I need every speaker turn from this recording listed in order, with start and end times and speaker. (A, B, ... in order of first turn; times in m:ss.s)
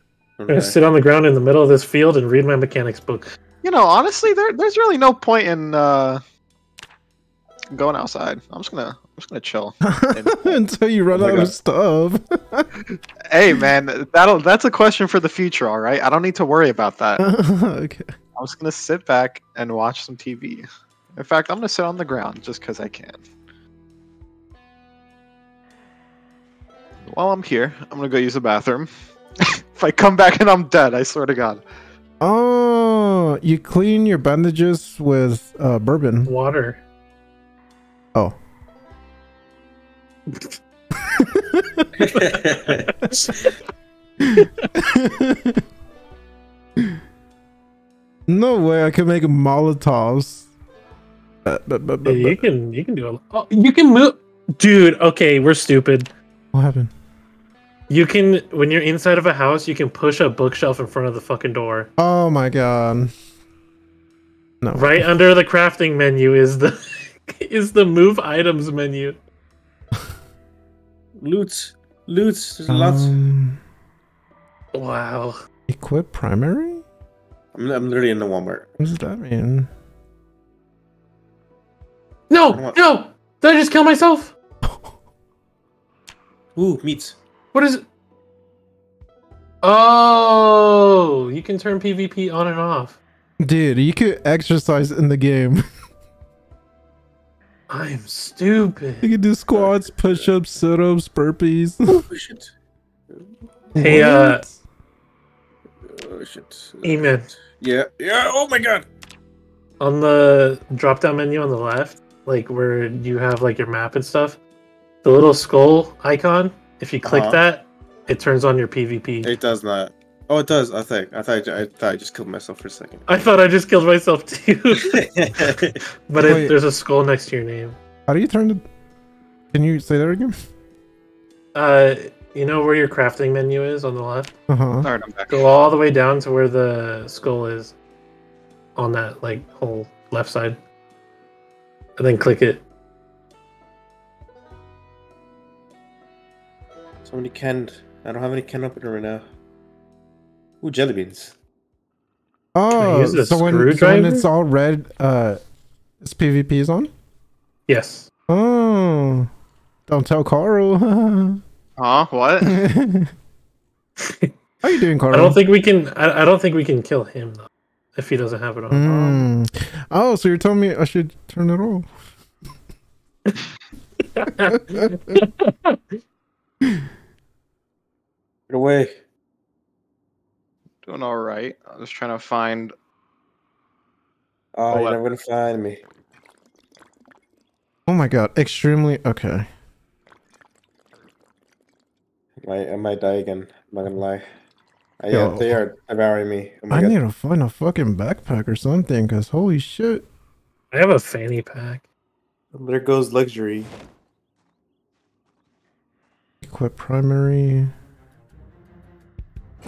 0:00.4-0:00.8 A
0:00.5-0:03.3 B
0:03.6-0:06.2 C
0:07.7-0:10.6 C
0:09.8-0:12.7 D
0:11.1-0:11.5 A
0:13.3-0:17.2 C
0:17.2-0:18.1 D
0:18.4-0:23.2 C
0:27.1-0:31.6 C
0:32.2-0:36.3 D
0:36.3-0:36.8 B
0:40.3-0:40.6 B
0:41.2-0:41.9 D
0:42.0-0:42.9 A
0:42.1-0:43.6 B
0:44.2-0:45.6 D
0:44.4-0:44.6 B
0:48.3-0:50.5 D
0:51.4-0:52.4 D
0:52.0-0:56.1 B
0:56.5-0:56.9 D
0:57.9-1:01.9 B
1:02.0-1:03.1 D
1:04.6-1:05.1 D
1:04.7-1:09.2 B
1:11.2-1:13.2 A
1:12.7-1:13.6 D
1:14.7-1:15.4 B
1:15.7-1:16.8 D
1:17.5-1:18.8 A
1:18.8-1:19.7 D
1:22.3-1:24.3 B
1:22.5-1:22.8 A
1:24.6-1:24.9 D
1:26.6-1:27.2 A
1:27.5-1:27.8 B
1:29.6-1:33.0 B
1:33.4-1:35.6 D
1:37.7-1:39.1 B
1:39.0-1:42.0 D
1:39.5-1:40.4 A
1:41.9-1:42.5 A
1:43.1-1:43.4 A
1:43.8-1:44.6 D
1:43.8-1:44.4 B
1:45.8-1:48.9 A
1:46.8-1:47.3 B
1:49.8-1:54.4 B
1:55.0-1:59.3 B
1:57.0-1:57.4 A
1:59.2-2:03.1 A
2:03.1-2:05.0 B
2:04.9-2:05.8 A
2:06.1-2:07.8 B
2:06.2-2:06.5 D
2:08.1-2:08.6 D
2:09.5-2:10.3 D
2:11.5-2:14.3 B
2:14.5-2:14.9 D
2:14.8-2:15.5 C
2:15.3-2:17.8 B
2:18.8-2:20.6 B
2:22.0-2:22.6 B
2:27.0-2:29.3 A
2:30.6-2:31.4 A
2:32.5-2:35.4 D
2:32.8-2:34.2 B
2:36.0-2:36.9 D
2:37.7-2:38.1 B
2:38.3-2:39.3 D
2:39.9-2:41.4 D
2:41.8-2:42.5 C
2:42.4-2:43.1 D
2:44.0-2:44.3 B
2:44.6-2:45.4 D
2:45.1-2:49.3 B
2:48.7-2:51.9 D
2:54.1-2:56.0 B
2:58.5-2:59.0 A
3:00.8-3:02.7 C
3:04.5-3:05.8 A
3:04.7-3:05.0 C
3:07.9-3:09.5 D
3:12.4-3:14.3 A
3:15.0-3:17.0 A
3:15.1-3:15.6 D
3:16.7-3:20.1 D
3:20.7-3:21.8 B
3:22.5-3:23.7 A
3:26.4-3:27.7 D